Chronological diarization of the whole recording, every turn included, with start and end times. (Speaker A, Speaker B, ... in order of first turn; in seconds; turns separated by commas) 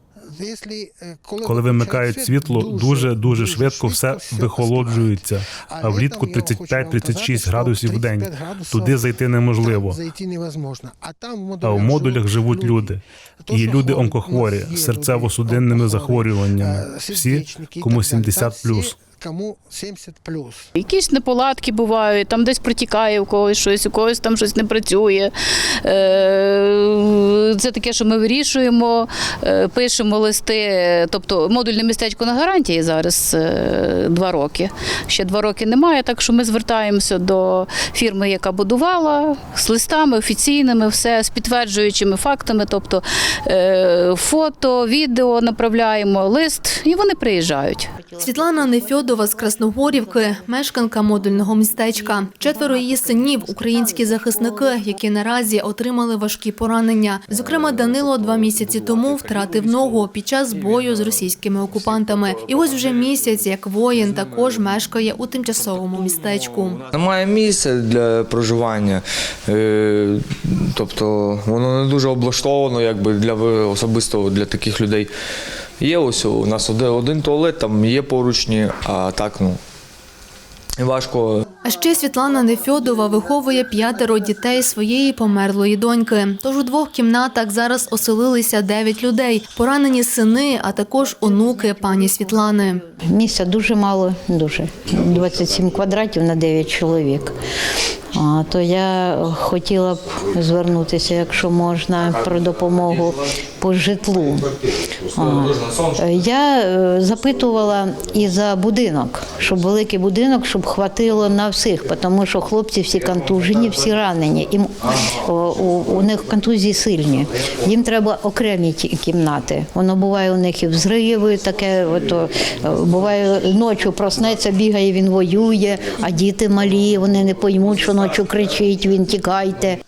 Speaker A: 0.2-9.0, Speaker B: 1.4-10.0, Speaker A: 9.6-20.7, Speaker B: 11.6-19.0, Speaker C: 20.8-47.9, Speaker D: 48.0-50.4, Speaker E: 48.2-66.8, Speaker D: 51.7-54.7, Speaker F: 57.6-58.0, Speaker F: 58.8-59.1, Speaker F: 66.9-75.1, Speaker F: 75.8-79.6, Speaker F: 80.8-81.4, Speaker E: 81.6-92.8, Speaker D: 91.3-97.3, Speaker D: 98.1-104.5, Speaker D: 105.1-129.8, Speaker F: 105.5-105.9